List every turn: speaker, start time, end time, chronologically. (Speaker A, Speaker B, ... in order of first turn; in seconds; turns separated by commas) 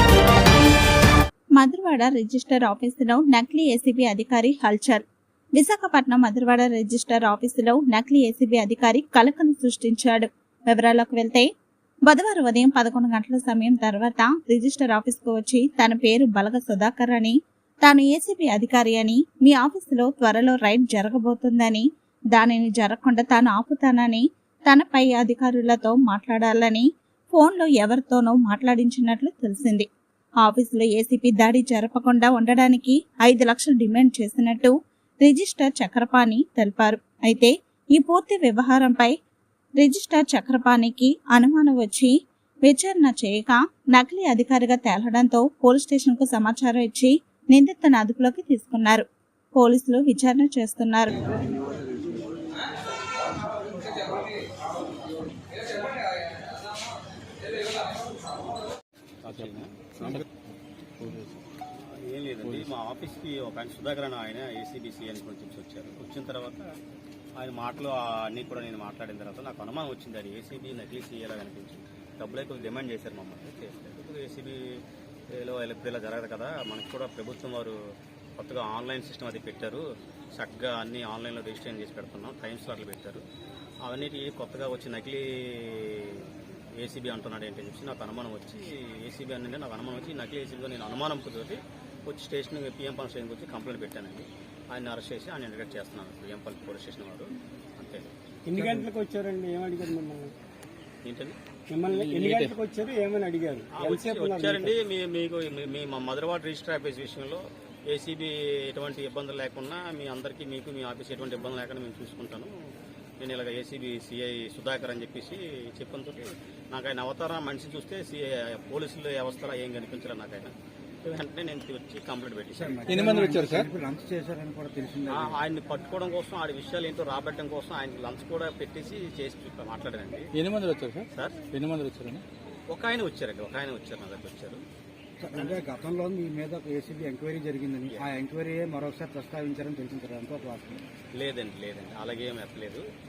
Speaker A: 1.6-5.0, Speaker A: 5.6-11.5, Speaker A: 12.1-29.9, Speaker A: 30.4-39.1, Speaker A: 39.8-42.1, Speaker A: 42.6-51.1, Speaker B: 59.2-60.2, Speaker C: 59.3-60.3, Speaker C: 61.0-61.4, Speaker B: 62.0-66.7, Speaker C: 62.4-62.7, Speaker B: 67.4-74.8, Speaker B: 75.3-77.8, Speaker B: 78.4-83.2, Speaker B: 83.8-98.1, Speaker D: 98.5-100.3, Speaker C: 98.6-98.9, Speaker B: 101.0-101.4, Speaker D: 101.7-104.7, Speaker C: 101.9-102.5, Speaker B: 103.7-112.5, Speaker B: 113.2-122.9, Speaker E: 122.6-125.4, Speaker C: 122.9-123.7, Speaker B: 125.2-130.3, Speaker C: 130.3-132.2, Speaker B: 132.7-134.6, Speaker E: 135.2-140.8, Speaker B: 141.2-142.8